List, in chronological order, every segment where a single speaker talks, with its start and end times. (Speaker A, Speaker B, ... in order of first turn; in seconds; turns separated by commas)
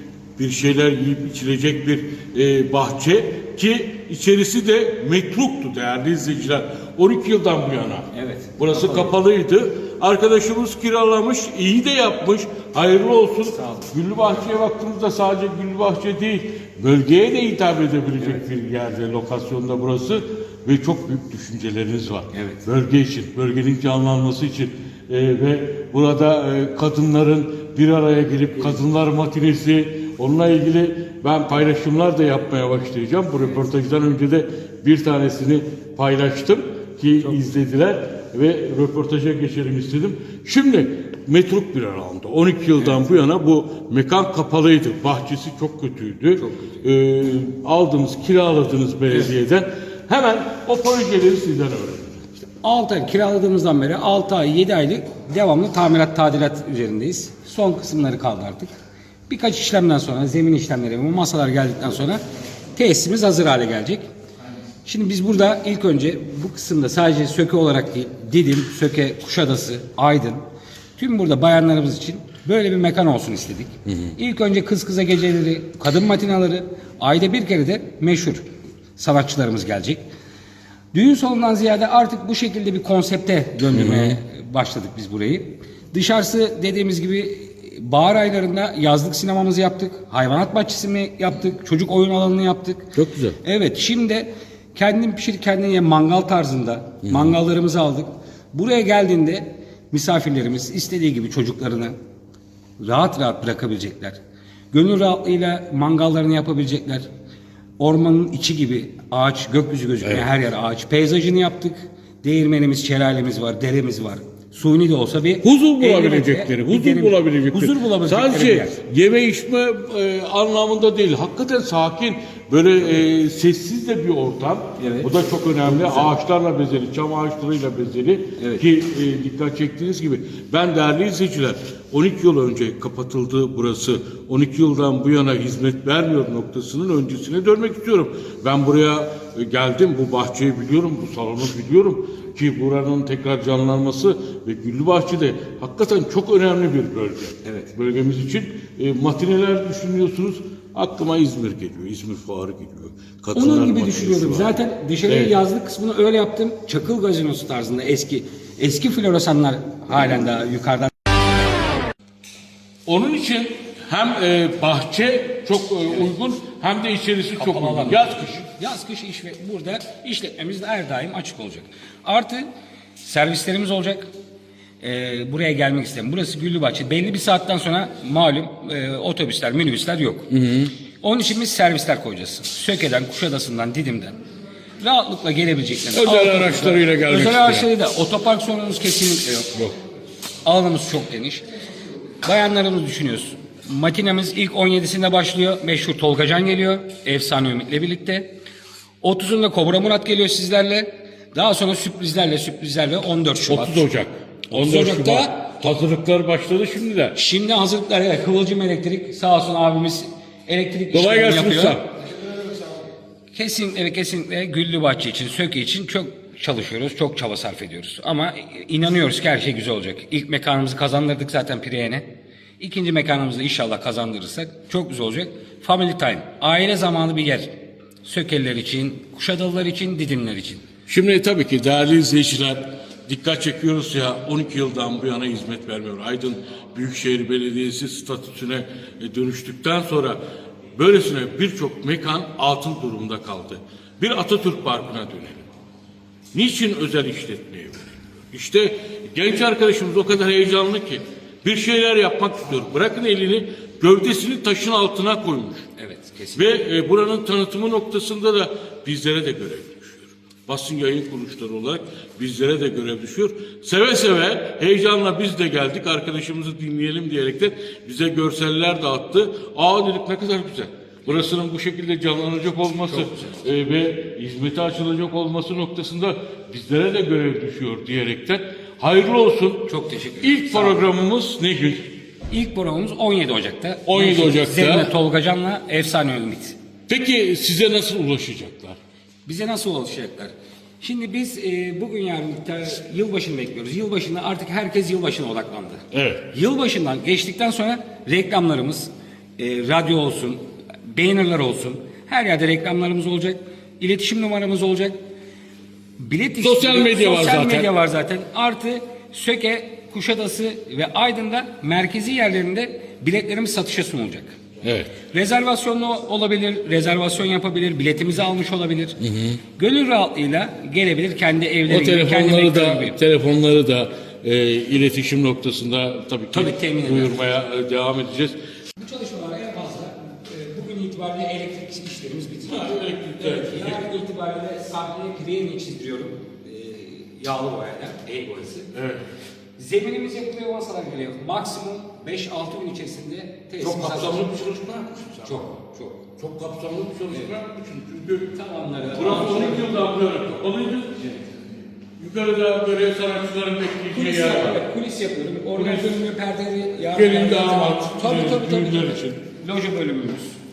Speaker A: 0.4-52.2, Speaker B: 8.1-9.1, Speaker B: 13.5-13.9, Speaker B: 22.3-22.6, Speaker B: 46.4-46.8, Speaker B: 52.5-58.7, Speaker B: 59.3-62.2, Speaker B: 62.7-64.0, Speaker B: 64.8-70.4, Speaker B: 71.0-78.4, Speaker A: 73.8-74.1, Speaker B: 79.0-80.0, Speaker B: 80.9-101.9, Speaker A: 83.7-84.2, Speaker A: 92.9-93.4, Speaker A: 97.0-97.4, Speaker B: 102.8-104.2, Speaker B: 104.7-107.1, Speaker B: 107.8-118.8, Speaker A: 115.4-154.5, Speaker B: 124.8-125.1, Speaker B: 125.6-126.1, Speaker B: 128.4-128.6, Speaker B: 147.4-147.7, Speaker B: 153.3-160.9, Speaker A: 155.1-155.3, Speaker A: 162.8-168.4, Speaker B: 167.4-172.4, Speaker B: 173.0-174.1, Speaker B: 174.8-180.3, Speaker A: 180.3-180.7, Speaker B: 181.0-184.2, Speaker B: 184.8-189.7, Speaker A: 185.9-187.7, Speaker B: 190.4-191.4, Speaker B: 192.2-198.3, Speaker B: 199.0-203.8, Speaker A: 203.4-207.2, Speaker B: 204.5-205.7, Speaker B: 207.1-211.8, Speaker A: 210.9-211.9, Speaker B: 213.3-222.1, Speaker B: 222.6-230.7, Speaker A: 230.9-240.2, Speaker A: 240.8-245.4, Speaker A: 246.3-255.7, Speaker B: 255.8-256.5, Speaker A: 256.3-279.7, Speaker B: 272.9-273.4, Speaker B: 279.7-280.9, Speaker A: 280.2-281.9, Speaker B: 282.3-286.6, Speaker A: 283.9-284.9, Speaker A: 286.9-288.8, Speaker B: 289.2-305.0, Speaker A: 295.9-296.3, Speaker B: 306.0-314.4, Speaker A: 306.4-307.7, Speaker A: 314.6-314.9, Speaker B: 315.1-319.0, Speaker A: 319.0-319.4, Speaker B: 319.6-323.0, Speaker A: 321.7-328.4, Speaker B: 326.3-327.2, Speaker B: 328.8-338.7, Speaker A: 332.4-333.8, Speaker A: 338.7-339.0, Speaker B: 339.6-344.3, Speaker A: 343.6-345.5, Speaker B: 345.2-346.0, Speaker A: 346.2-348.3, Speaker B: 348.3-349.7, Speaker A: 348.9-351.1, Speaker A: 352.0-354.6, Speaker B: 353.9-360.4, Speaker A: 355.5-356.1, Speaker A: 356.9-359.3